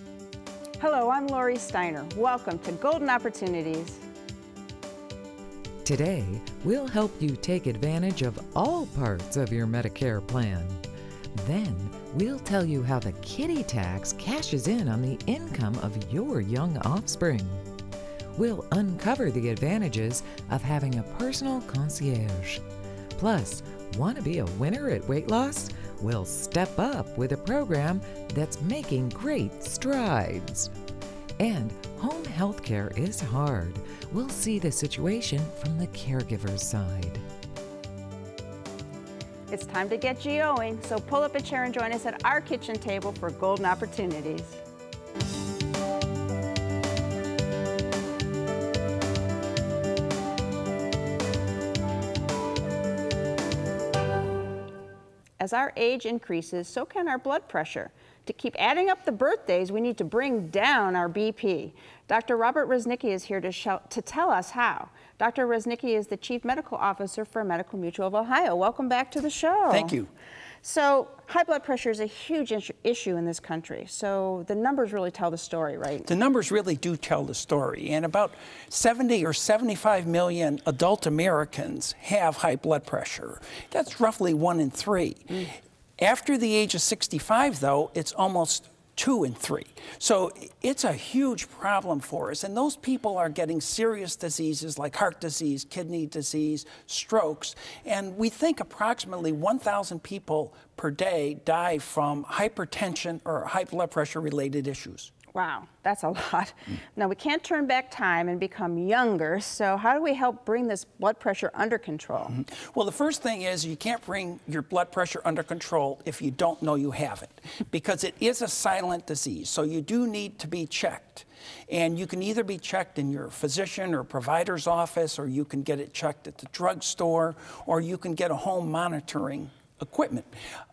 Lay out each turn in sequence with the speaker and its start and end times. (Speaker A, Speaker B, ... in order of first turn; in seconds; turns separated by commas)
Speaker A: 0.8-4.0, Speaker B: 5.8-10.8, Speaker B: 11.3-17.6, Speaker B: 18.4-22.6, Speaker B: 23.2-30.7, Speaker B: 31.4-37.2, Speaker A: 39.5-44.6, Speaker A: 55.4-70.0, Speaker C: 69.7-70.1, Speaker A: 70.6-76.1, Speaker C: 76.0-105.1, Speaker A: 105.3-112.3, Speaker C: 112.3-130.3